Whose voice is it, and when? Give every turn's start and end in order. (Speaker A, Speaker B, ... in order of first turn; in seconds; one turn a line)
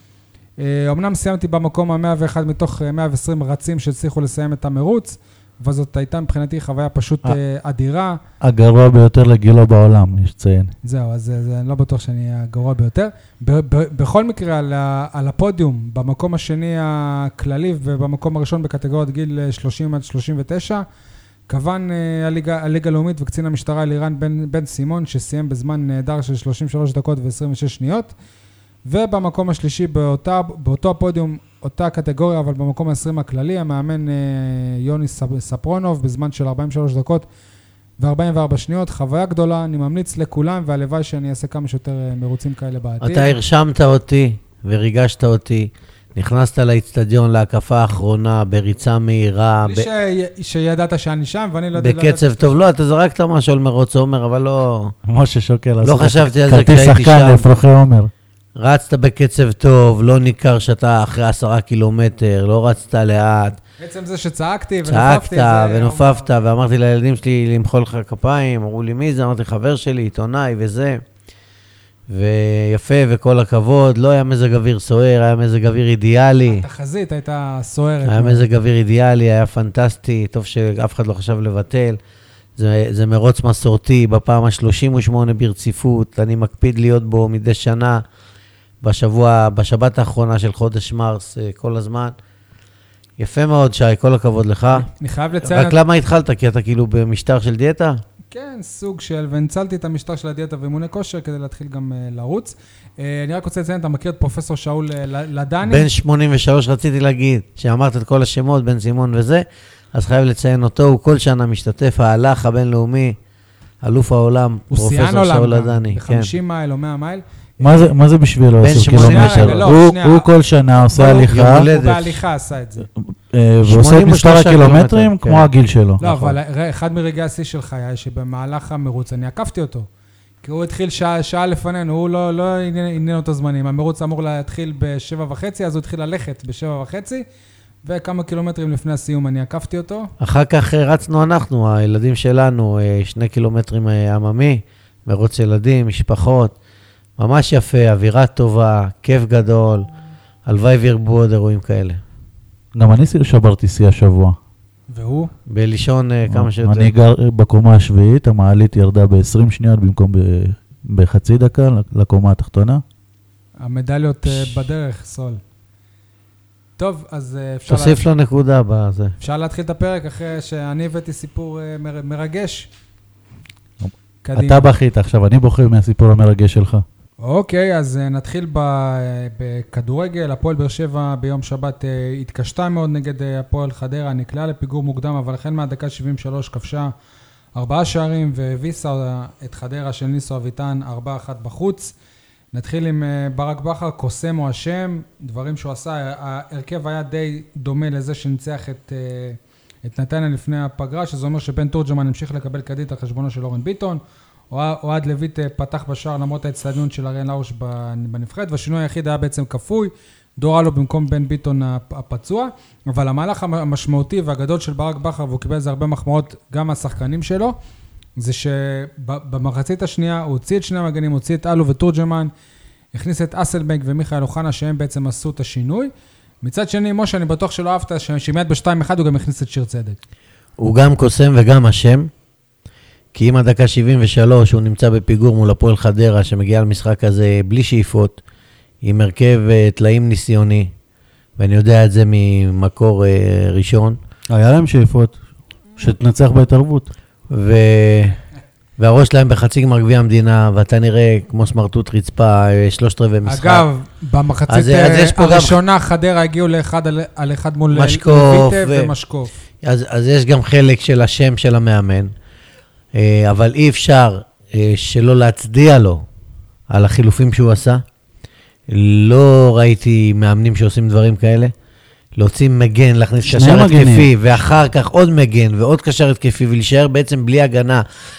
Speaker A: 0.6-8.2
Speaker B: 8.4-10.7
Speaker A: 10.8-20.8
Speaker A: 21.5-28.1
Speaker A: 28.9-37.3
Speaker A: 38.0-43.4
Speaker C: 43.0-49.9
Speaker A: 49.6-52.5
Speaker C: 51.8-54.9
Speaker B: 55.1-58.1
Speaker C: 55.8-57.5
Speaker C: 58.6-63.6
Speaker A: 63.8-66.3
Speaker C: 64.9-71.0
Speaker C: 72.1-76.6
Speaker A: 76.5-78.4
Speaker C: 78.1-82.0
Speaker C: 82.6-88.0
Speaker C: 88.8-92.1
Speaker C: 93.2-94.9
Speaker A: 94.8-95.8
Speaker C: 95.4-98.0
Speaker A: 98.3-105.9
Speaker C: 105.7-113.2
Speaker C: 113.8-116.3
Speaker A: 114.7-117.9
Speaker B: 117.6-121.7
Speaker C: 118.6-119.6
Speaker A: 118.9-120.3
Speaker C: 121.0-122.2
Speaker A: 121.0-122.9
Speaker B: 123.0-126.4
Speaker C: 123.7-125.5
Speaker A: 126.0-129.9
Speaker A: 130.4-137.2
Speaker A: 137.8-140.1
Speaker C: 140.2-146.5
Speaker C: 147.2-149.9
Speaker C: 150.5-152.0
Speaker B: 152.8-154.4
Speaker A: 154.9-155.3
Speaker C: 155.5-156.9
Speaker B: 156.3-162.8
Speaker A: 163.6-165.4
Speaker A: 166.8-168.0
Speaker C: 167.7-169.2
Speaker A: 169.2-172.7
Speaker A: 174.2-174.7
Speaker B: 174.4-176.8
Speaker A: 177.2-186.9
Speaker A: 187.6-191.9
Speaker A: 192.5-204.0
Speaker A: 204.5-217.6
Speaker A: 218.2-222.3
Speaker A: 222.9-225.9
Speaker A: 226.4-230.0
Speaker C: 230.6-232.1
Speaker C: 233.2-238.2
Speaker C: 238.8-240.7
Speaker C: 241.4-244.0
Speaker B: 244.3-245.2
Speaker B: 245.8-246.9
Speaker C: 247.3-248.2
Speaker C: 248.8-253.7
Speaker A: 253.3-259.3
Speaker C: 254.5-255.6
Speaker C: 257.7-258.9
Speaker C: 259.6-262.1
Speaker C: 262.9-266.0
Speaker C: 266.7-267.8
Speaker C: 268.7-271.5
Speaker C: 272.2-277.9
Speaker B: 273.2-274.1